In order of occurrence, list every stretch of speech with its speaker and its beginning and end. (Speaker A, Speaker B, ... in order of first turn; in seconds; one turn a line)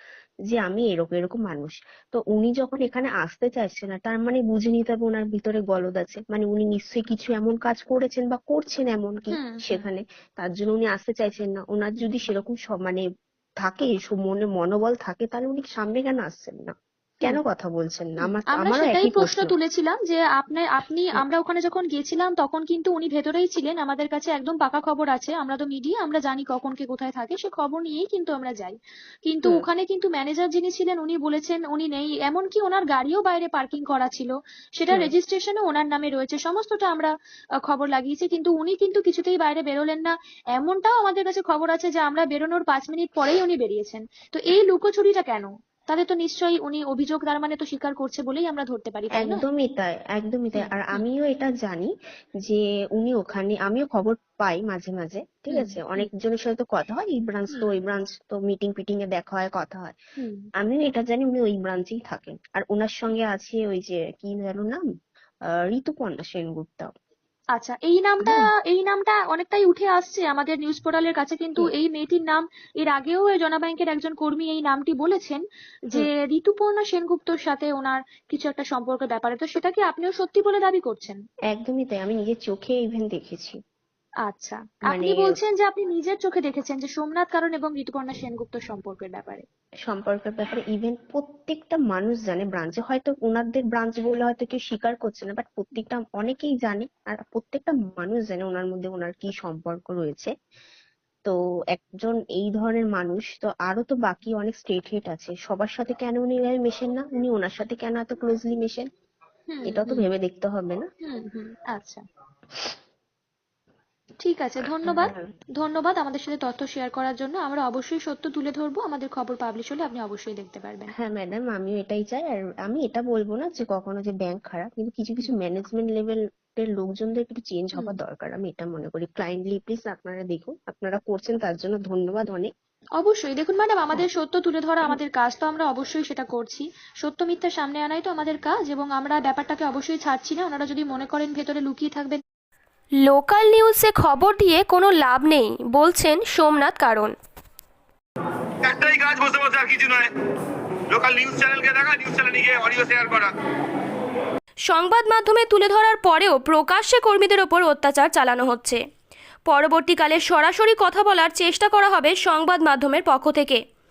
Speaker A: 0.5-13.0
Speaker B: 9.3-9.9
Speaker A: 13.6-19.6
Speaker B: 18.2-37.1
Speaker B: 37.7-49.4
Speaker A: 49.1-60.0
Speaker B: 50.6-51.0
Speaker B: 55.5-56.1
Speaker B: 57.5-57.8
Speaker B: 60.2-60.5
Speaker A: 60.6-64.8
Speaker A: 65.5-66.9
Speaker B: 67.6-75.4
Speaker B: 75.9-81.2
Speaker A: 81.5-83.6
Speaker B: 84.3-89.5
Speaker A: 84.9-85.3
Speaker A: 89.9-100.3
Speaker A: 101.2-108.9
Speaker B: 109.5-110.1
Speaker A: 109.7-110.9
Speaker B: 111.0-112.0
Speaker B: 114.2-120.9
Speaker A: 114.6-115.2
Speaker A: 121.0-132.5
Speaker B: 133.0-142.2
Speaker C: 143.0-147.1
Speaker D: 148.6-150.1
Speaker D: 150.9-153.3
Speaker C: 154.7-158.8
Speaker C: 159.5-163.6